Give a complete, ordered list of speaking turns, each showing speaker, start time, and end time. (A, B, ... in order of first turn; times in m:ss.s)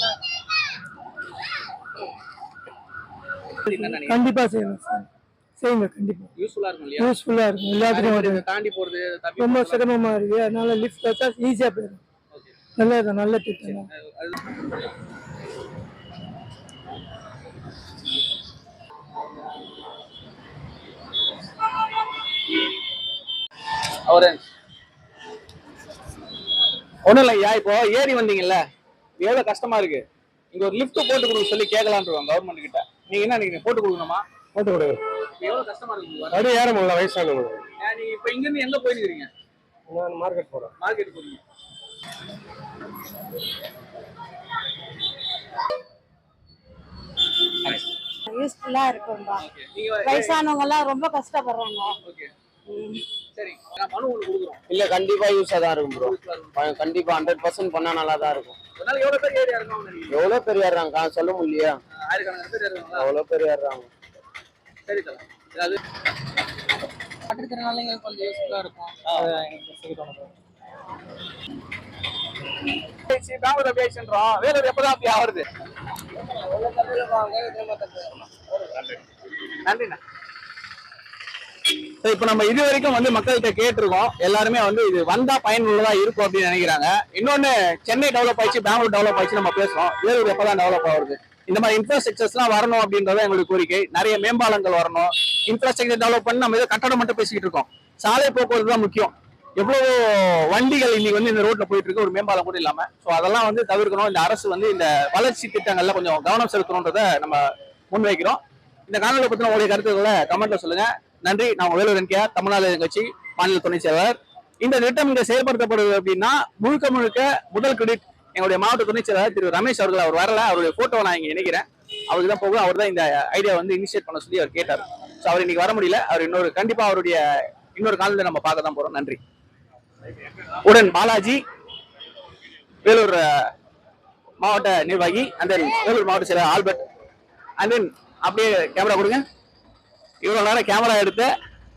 0:03.6-0:04.3 A
0:03.7-0:05.1 B
0:05.6-0:06.3 B
0:06.4-0:07.1 A
0:07.0-0:08.4 B
0:07.8-0:09.9 A
0:09.4-0:12.0 B
0:12.8-0:13.9 B
0:13.6-0:14.6 A
0:24.1-0:24.4 A
0:27.1-0:28.6 A
0:29.2-0:34.2 A
0:34.6-0:35.0 C
0:35.4-0:36.6 A
0:36.3-0:37.6 C
0:37.8-0:39.3 A
0:39.9-0:40.7 C
0:40.8-0:41.4 A
0:48.3-0:49.4 D
0:49.4-0:50.5 A
0:50.0-0:52.0 D
0:52.0-0:52.3 A
0:52.7-0:53.0 D
0:53.2-0:54.6 A
0:54.7-0:58.6 E
0:55.9-0:57.0 A
0:58.8-1:00.3 A
1:00.1-1:01.8 E
1:02.0-1:03.1 A
1:03.0-1:03.9 E
1:04.9-1:05.8 A
1:08.0-1:08.5 A
1:09.0-1:09.3 A
1:13.0-1:15.5 A
1:16.9-1:18.0 A
1:19.6-1:20.0 A
1:22.0-2:07.2 A
2:07.8-2:09.2 A
2:10.6-2:11.4 A
2:12.8-2:13.5 A
2:14.4-2:16.8 A
2:17.6-2:19.2 A
2:20.2-2:21.3 A